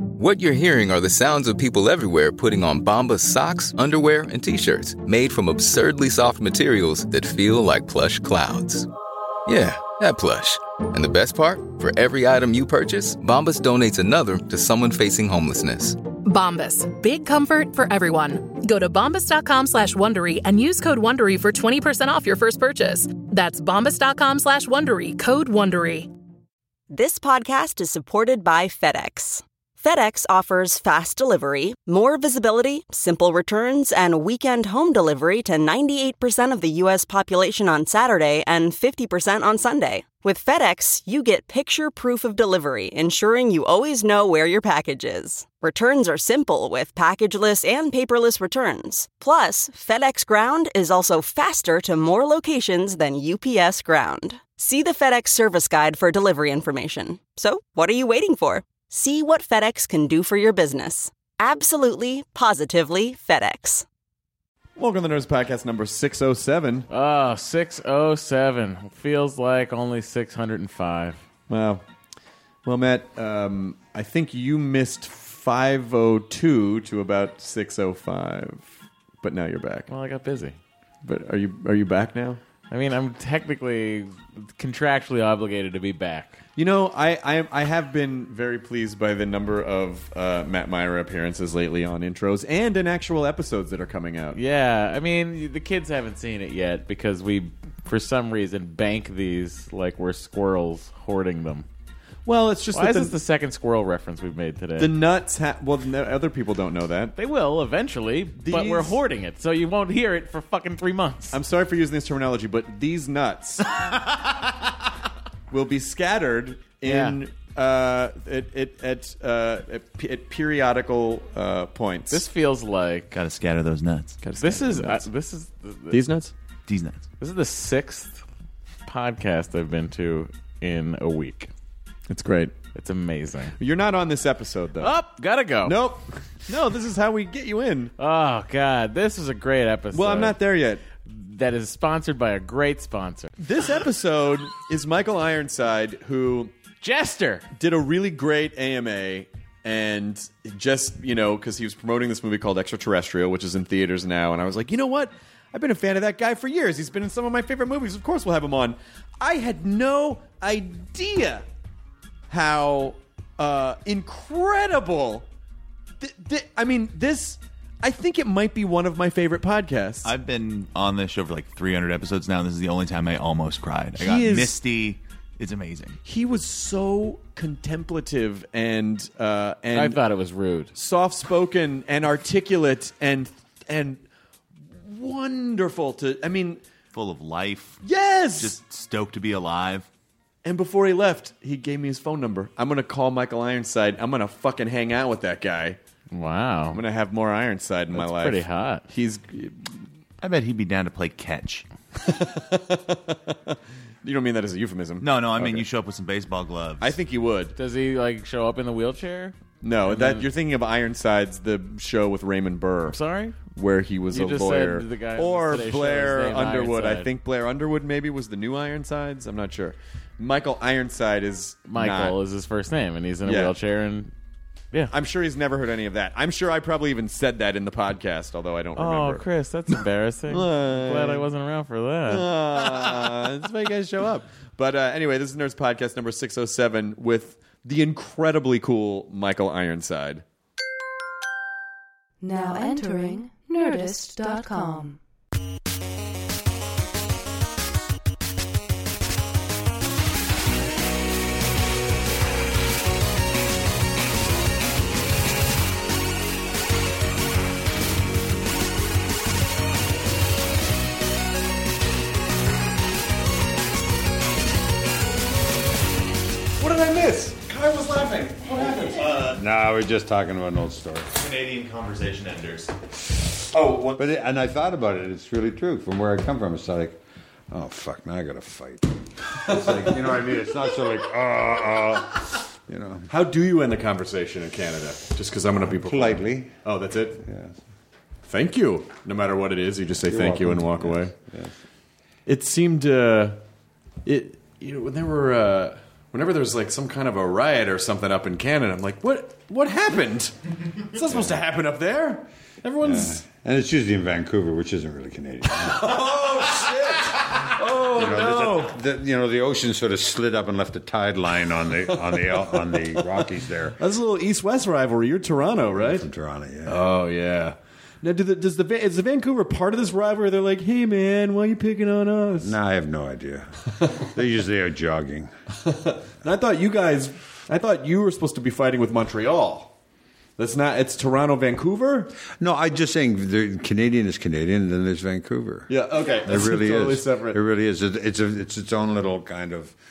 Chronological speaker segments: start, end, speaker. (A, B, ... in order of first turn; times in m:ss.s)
0:00.2-0:08.9 A
0:09.5-0:16.0 A
0:16.2-0:26.1 B
0:26.9-1:03.8 C
1:04.8-1:06.8 D
1:06.9-1:11.2 E
1:11.5-1:11.8 D
1:12.6-1:19.9 D
1:19.9-1:20.6 E
1:21.0-1:22.4 D
1:22.7-1:26.4 E
1:26.6-1:34.4 D
1:34.3-1:41.6 E
1:42.2-1:43.1 D
1:42.7-1:44.9 E
1:44.8-1:47.2 D
1:47.2-1:51.4 E
1:48.4-1:49.0 D
1:51.3-1:53.7 D
1:55.5-2:02.2 D
1:56.8-1:57.2 E
2:02.1-2:03.2 E
2:03.1-2:04.2 F
2:04.2-2:05.1 D
2:04.4-2:06.0 E
2:05.9-2:06.3 D
2:06.7-2:07.0 F
2:07.2-2:08.2 E
2:08.8-2:11.5 E
2:12.1-2:12.5 D
2:12.7-2:13.6 E
2:13.6-2:15.0 D
2:14.8-2:15.8 E
2:15.6-2:17.9 D
2:18.0-2:20.4 E
2:19.9-2:20.8 D
2:21.0-2:23.3 E
2:23.4-2:26.5 D
2:26.8-2:27.5 E
2:27.5-2:41.4 D
2:42.3-2:45.2 D
2:46.0-2:50.1 D
2:50.0-2:56.0 F
2:54.0-2:54.6 D
2:56.0-3:00.0 D
2:59.7-3:00.7 E
3:00.7-3:04.0 D
3:04.8-3:06.6 D
3:06.9-3:07.8 F
3:07.8-3:08.6 D
3:08.3-3:09.9 F
3:10.4-3:15.8 D
3:16.1-3:16.8 E
3:16.7-3:19.8 D
3:17.9-3:18.8 E
3:20.2-3:21.7 F
3:22.1-3:25.6 D
3:25.0-3:27.0 F
3:26.8-3:27.5 D
3:27.6-3:30.3 E
3:29.6-3:33.0 D
3:32.9-3:33.4 E
3:33.5-3:42.2 D
3:34.1-3:37.1 E
3:41.7-3:44.1 E
3:43.2-3:43.5 D
3:44.9-3:49.3 D
3:48.8-3:52.3 E
3:50.3-3:51.3 D
3:52.1-4:00.2 D
4:02.2-4:05.0 G
4:26.6-4:29.1 D
4:28.6-4:29.4 F
4:29.2-4:31.2 H
4:31.1-4:32.7 F
4:33.5-4:33.9 D
4:34.0-4:43.1 H
4:43.1-4:47.2 D
4:45.6-4:46.5 H
4:47.2-4:47.5 H
4:48.3-4:51.1 D
4:50.1-4:51.5 H
4:52.2-4:53.4 D
4:54.0-5:03.2 D
5:01.0-5:01.4 H
5:02.8-5:13.8 H
5:05.6-5:08.7 D
5:13.8-5:16.0 D
5:15.7-5:16.8 H
5:16.6-5:22.5 D
5:22.4-5:25.3 H
5:25.6-5:29.7 D
5:30.4-5:32.1 D
5:32.3-5:35.7 H
5:35.7-5:37.4 D
5:36.2-5:39.8 H